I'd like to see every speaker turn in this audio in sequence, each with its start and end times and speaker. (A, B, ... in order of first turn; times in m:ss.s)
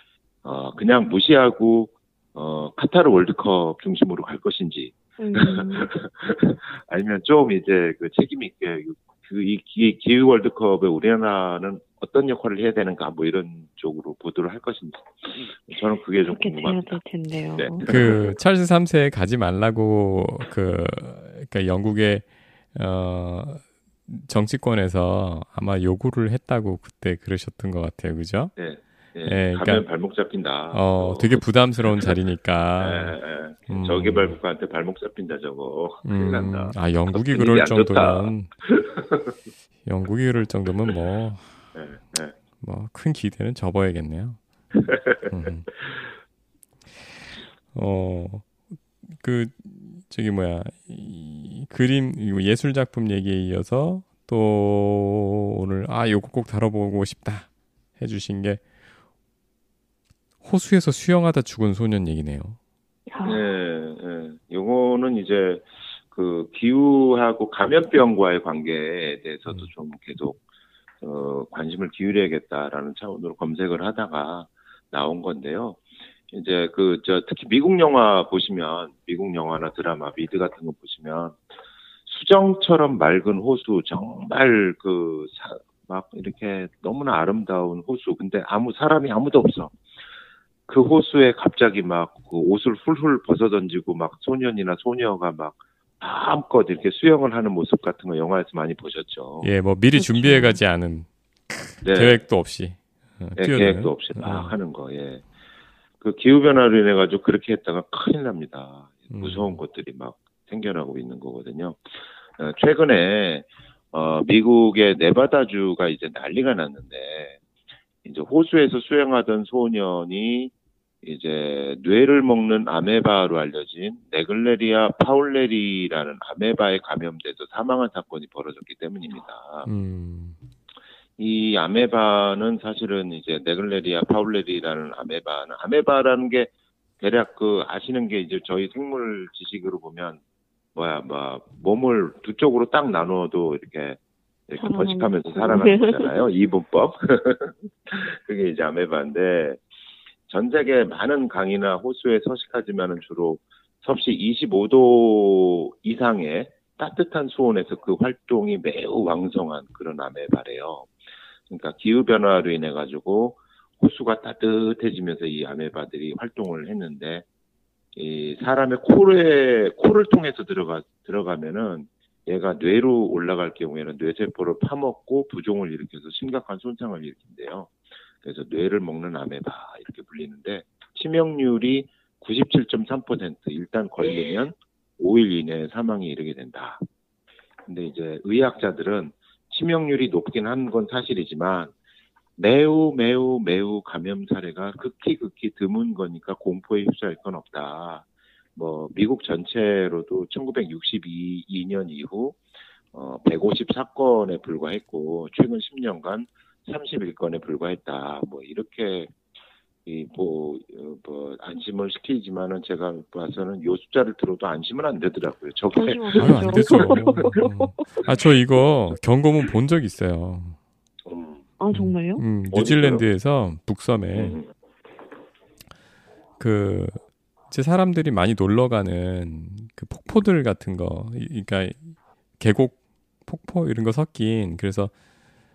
0:00.4-0:17.0 A
0:05.2-0:05.9 B
0:16.2-0:18.2 B
0:17.6-0:18.2 A
0:17.8-0:28.5 C
0:28.6-0:31.4 A
0:29.2-0:29.8 C
0:30.7-0:33.2 C
0:32.8-0:39.3 A
0:33.7-0:34.4 C
0:36.0-0:38.5 C
0:39.8-0:41.7 C
0:41.7-0:42.3 A
0:42.6-0:44.4 C
0:44.8-0:45.3 A
0:45.3-0:45.7 C
0:47.7-0:57.5 C
0:58.0-0:58.6 C
1:00.4-1:02.6 C
1:03.1-1:03.4 B
1:03.2-1:10.4 A
1:11.0-1:21.4 A
1:22.0-1:29.7 A
1:30.7-1:39.5 A
1:39.4-1:44.5 C
1:39.9-1:40.6 B
1:41.8-1:42.2 A
1:43.4-1:45.2 A
1:46.0-1:57.4 A
1:49.1-1:49.6 C
1:58.0-2:00.5 A
2:01.0-2:09.7 A
2:09.6-2:10.4 C
2:11.2-2:20.2 A
2:20.7-2:29.6 A
2:24.6-2:26.2 B
2:30.3-2:40.9 A
2:41.5-2:47.2 A
2:47.9-3:06.8 A
3:07.7-3:11.7 A
3:12.4-3:18.0 A
3:18.6-3:22.4 A
3:22.9-3:29.1 A
3:29.8-3:37.4 A
3:35.7-3:37.8 B
3:36.2-3:40.6 C
3:41.0-3:41.4 A
3:41.6-3:42.2 B
3:41.7-3:44.4 C
3:42.5-3:43.0 A
3:44.1-3:44.5 A
3:46.4-3:54.9 C